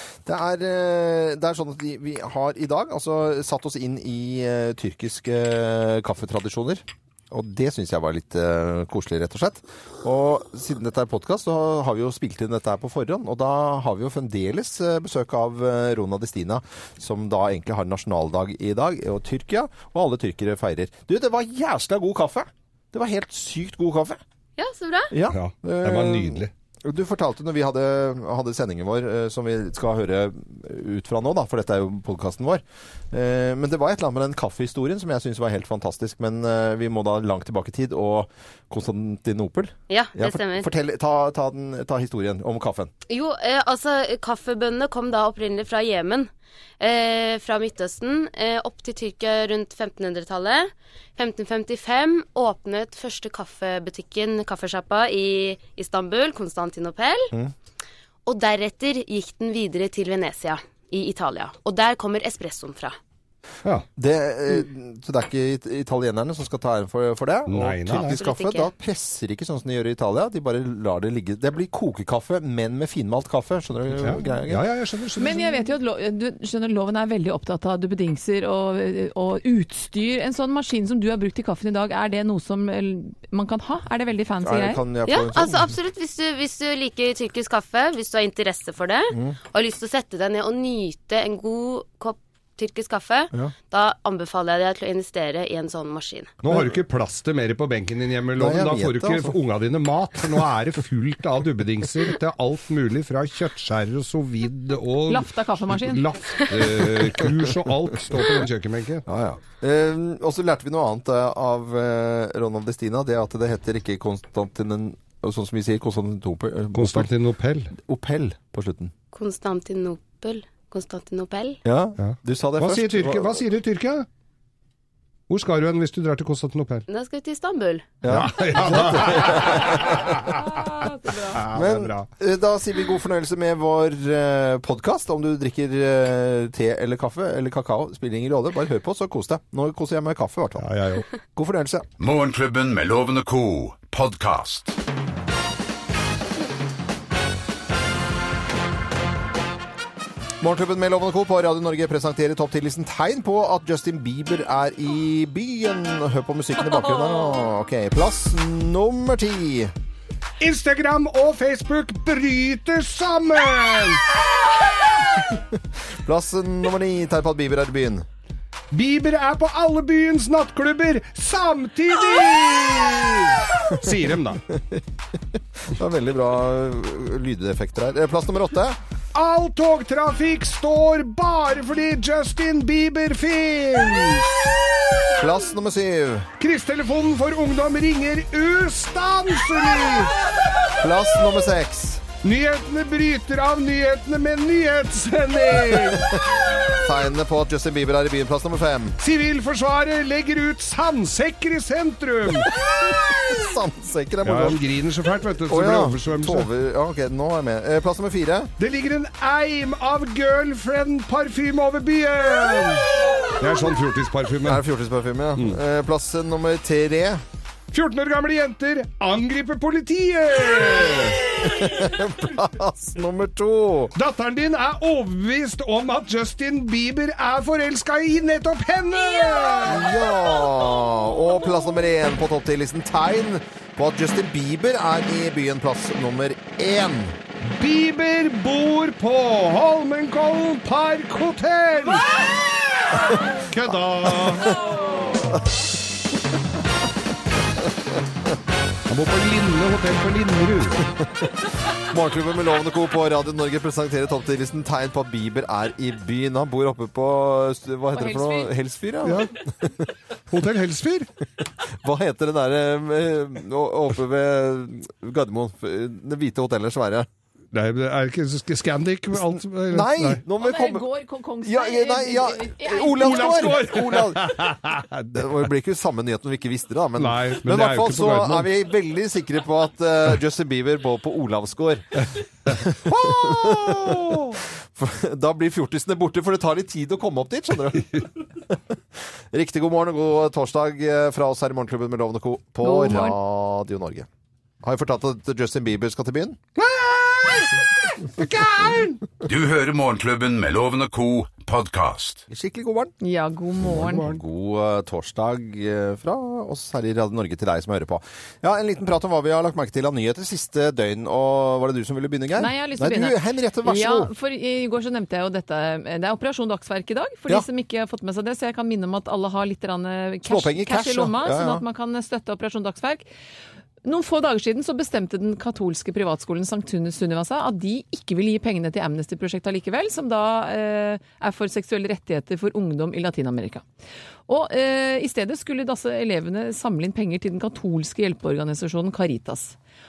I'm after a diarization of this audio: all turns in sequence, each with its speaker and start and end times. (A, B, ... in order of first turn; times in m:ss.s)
0:00.3-0:24.2 A
0:24.6-0:25.1 B
0:25.1-0:42.9 A
0:25.3-0:26.5 C
0:39.9-0:40.7 B
0:43.1-0:57.3 B
0:58.3-1:03.0 B
1:04.0-1:14.6 A
1:07.5-1:08.2 C
1:07.9-1:08.7 B
1:14.0-1:15.7 C
1:15.2-1:24.8 D
1:24.4-1:25.7 A
1:25.1-1:36.3 B
1:29.1-1:29.4 A
1:36.4-1:49.1 C
1:38.4-1:39.3 A
1:45.1-1:46.0 D
1:49.1-1:57.1 A
1:56.7-1:57.7 C
1:57.8-1:58.9 A
1:59.1-2:01.6 B
2:01.6-2:03.4 A
2:02.0-2:04.1 C
2:05.3-2:06.8 C
2:06.9-2:08.0 B
2:08.0-2:10.0 A
2:08.1-2:12.1 C
2:10.4-2:11.4 D
2:11.5-2:20.7 A
2:20.6-2:21.0 C
2:21.4-2:21.9 A
2:22.0-2:24.7 E
2:30.4-2:39.7 A
2:40.4-2:44.0 C
2:45.3-2:48.1 A
2:48.7-2:54.4 C
2:54.5-2:54.8 A
2:55.6-2:58.8 A
2:59.2-3:04.5 C
3:05.2-3:06.3 A
3:06.4-3:10.2 C
3:10.8-3:12.0 A
3:12.2-3:16.2 C
3:16.7-3:19.0 A
3:19.0-3:22.5 C
3:22.6-3:24.6 A
3:24.2-3:26.5 C
3:25.5-3:28.5 A
3:28.6-3:34.6 C
3:34.4-3:37.2 A
3:37.7-3:42.0 C
3:40.6-3:43.9 A
3:44.0-3:50.0 C
3:49.6-3:57.2 A
3:57.4-4:02.0 C
4:03.5-4:04.6 C
4:08.9-4:10.9 C
4:11.8-4:19.8 A
4:17.9-4:18.5 D
4:19.0-4:19.3 C
4:20.3-4:21.1 C
4:21.8-4:27.1 A
4:27.5-4:30.2 C
4:29.1-4:30.9 A
4:30.4-4:33.7 D
4:31.4-4:34.6 A
4:33.0-4:35.2 C
4:35.1-4:48.6 A
4:37.0-4:38.5 C
4:42.6-4:44.3 C
4:49.3-4:54.1 A
4:52.6-4:53.2 D
4:54.6-4:56.4 A
4:56.6-4:59.0 C
4:59.2-5:02.2 E
5:02.3-5:02.9 A
5:03.0-5:04.0 D
5:03.7-5:04.2 C
5:04.0-5:14.1 A
5:12.4-5:23.1 D
5:20.2-5:21.6 A
5:23.8-5:33.6 D
5:34.3-5:39.6 D